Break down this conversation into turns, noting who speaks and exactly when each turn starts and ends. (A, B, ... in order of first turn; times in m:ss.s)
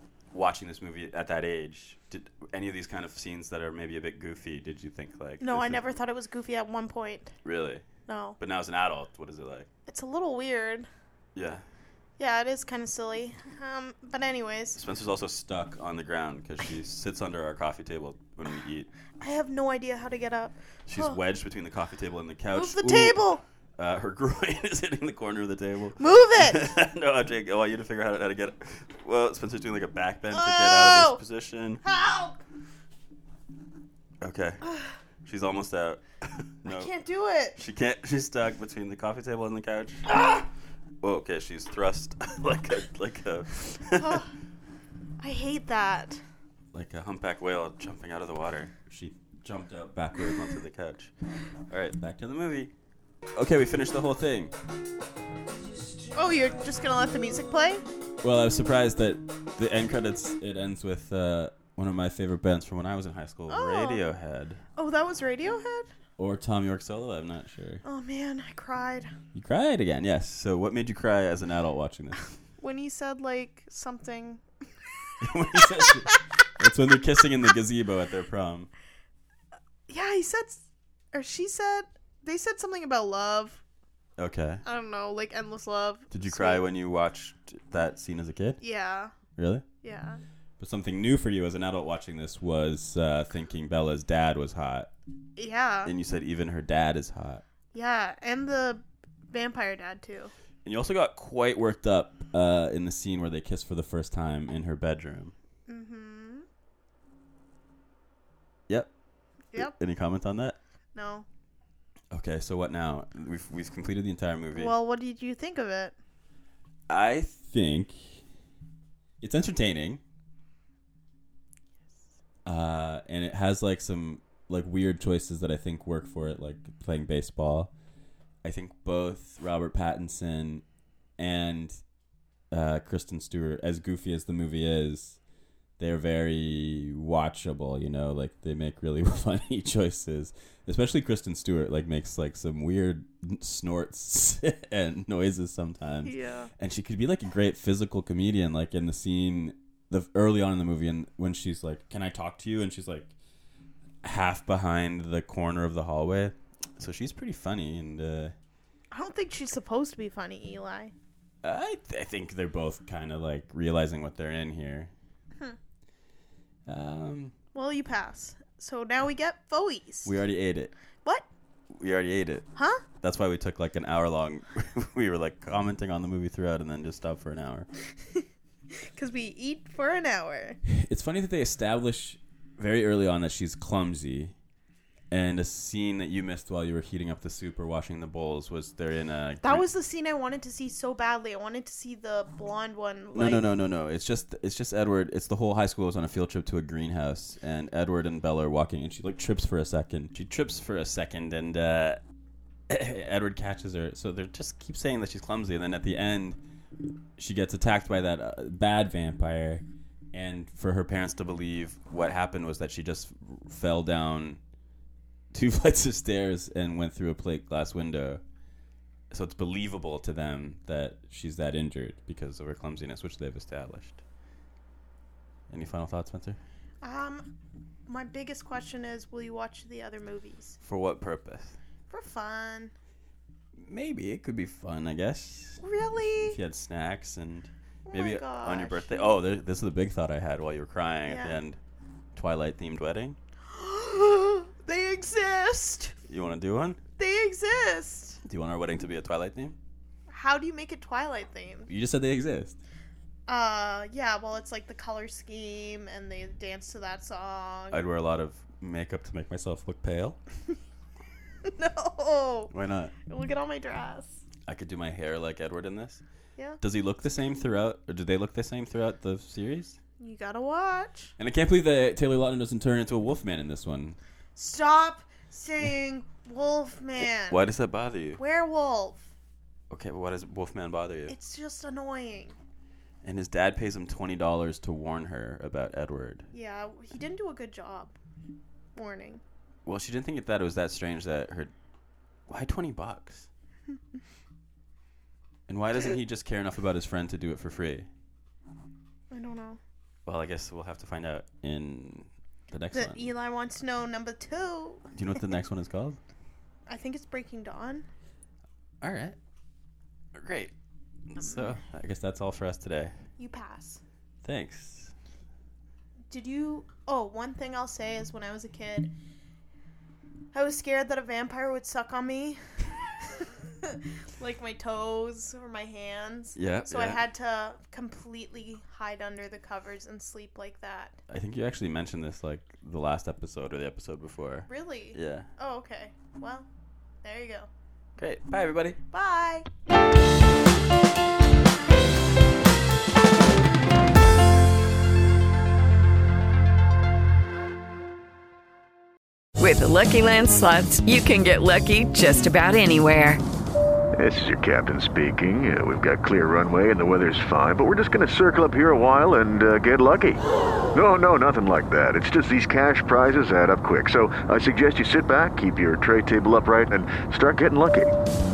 0:00.3-0:05.8 A
0:05.4-0:07.3 B
0:07.4-0:07.8 A
0:08.1-0:08.4 B
0:08.4-0:09.7 A
0:09.9-0:10.9 B
0:11.4-0:11.6 A
0:12.2-0:14.8 B
0:14.8-0:18.9 A
0:19.2-0:21.2 B
0:20.9-0:23.2 A
0:22.5-0:23.4 B
0:23.8-0:31.8 A
0:26.0-0:26.7 B
0:30.3-0:31.2 B
0:31.8-0:32.4 B
0:34.2-0:34.6 A
0:34.6-0:34.9 B
0:35.2-0:36.9 A
0:36.6-0:37.6 B
0:37.6-0:40.1 A
0:41.0-0:44.3 A
0:43.9-0:44.3 B
0:45.2-0:46.2 B
0:46.7-0:51.1 A
0:51.7-0:52.7 A
0:53.3-0:54.5 A
0:56.1-0:57.8 B
0:58.2-1:04.6 A
1:03.5-1:04.0 B
1:04.8-1:05.9 B
1:06.2-1:07.8 A
1:07.8-1:09.1 B
1:09.3-1:12.2 A
1:12.6-1:14.4 B
1:15.2-1:18.7 A
1:15.6-1:16.2 B
1:19.9-1:23.6 B
1:24.2-1:24.6 A
1:24.6-1:26.6 B
1:26.1-1:28.6 A
1:28.6-1:29.1 B
1:29.4-1:29.6 A
1:29.8-1:30.2 B
1:30.6-1:34.9 A
1:35.4-1:35.9 B
1:35.8-1:37.4 A
1:37.7-1:40.3 B
1:40.6-1:45.3 A
1:45.7-1:46.5 B
1:49.6-1:50.6 A
1:51.0-1:51.3 B
1:52.1-1:54.8 A
1:54.6-1:56.0 B
1:56.9-1:58.2 A
1:59.2-2:00.0 A
2:02.4-2:07.7 A
2:08.4-2:10.6 A
2:11.2-2:11.8 A
2:12.5-2:15.2 A
2:15.8-2:33.1 A
2:26.0-2:26.5 B
2:34.0-2:38.3 A
2:38.9-2:40.9 B
2:41.4-2:44.9 A
2:46.7-2:47.3 A
2:47.5-2:50.2 B
2:50.0-2:50.7 A
2:51.7-2:52.5 A
2:52.6-2:52.8 B
2:53.0-2:57.7 A
2:58.1-3:00.6 B
3:00.7-3:04.4 A
3:05.1-3:09.7 A
3:09.4-3:13.5 B
3:13.1-3:22.0 A
3:22.7-3:26.4 A
3:27.2-3:34.4 A
3:35.3-3:38.2 A
3:39.1-3:44.0 A
3:45.5-3:46.4 A
3:46.8-3:47.3 B
3:47.9-3:50.6 B
3:50.6-3:51.6 A
3:51.9-3:52.7 B
3:53.6-3:55.6 A
3:55.6-3:56.4 B
3:56.3-4:01.6 A
3:57.9-3:59.1 B
4:01.1-4:01.4 B
4:02.2-4:03.2 A
4:03.5-4:06.0 B
4:06.1-4:06.8 A
4:07.0-4:08.2 B
4:08.2-4:09.6 A
4:10.1-4:11.7 B
4:11.7-4:12.6 A
4:13.3-4:17.8 B
4:17.7-4:20.2 A
4:21.4-4:22.5 B
4:22.5-4:22.9 A
4:23.1-4:24.2 B
4:24.5-4:26.0 A
4:26.6-4:29.8 A
4:30.0-4:31.1 B
4:31.2-4:34.0 A
4:34.4-4:37.4 B
4:37.0-4:38.2 A
4:38.2-4:39.0 B
4:39.7-4:41.1 A
4:41.1-4:42.4 B
4:43.0-4:46.3 A
4:46.3-4:48.0 B
4:48.8-4:49.2 B
4:49.6-4:51.5 A
4:52.3-4:53.3 A
4:55.5-4:57.9 A
4:59.1-4:59.6 B
5:00.1-5:03.1 A
5:02.7-5:04.9 B
5:04.9-5:06.0 A
5:06.7-5:07.9 B
5:08.8-5:09.2 A
5:10.1-5:10.5 A
5:11.1-5:12.9 A
5:13.2-5:13.8 B
5:14.2-5:14.9 A
5:16.1-5:18.9 B
5:20.3-5:22.4 B
5:23.6-5:31.0 B
5:26.4-5:27.0 A
5:31.1-5:35.3 A
5:34.5-5:36.5 B
5:37.0-5:37.5 B
5:38.0-5:38.8 A
5:38.9-5:39.5 B
5:49.4-5:53.2 C
5:54.0-6:00.2 D
6:00.8-6:07.9 D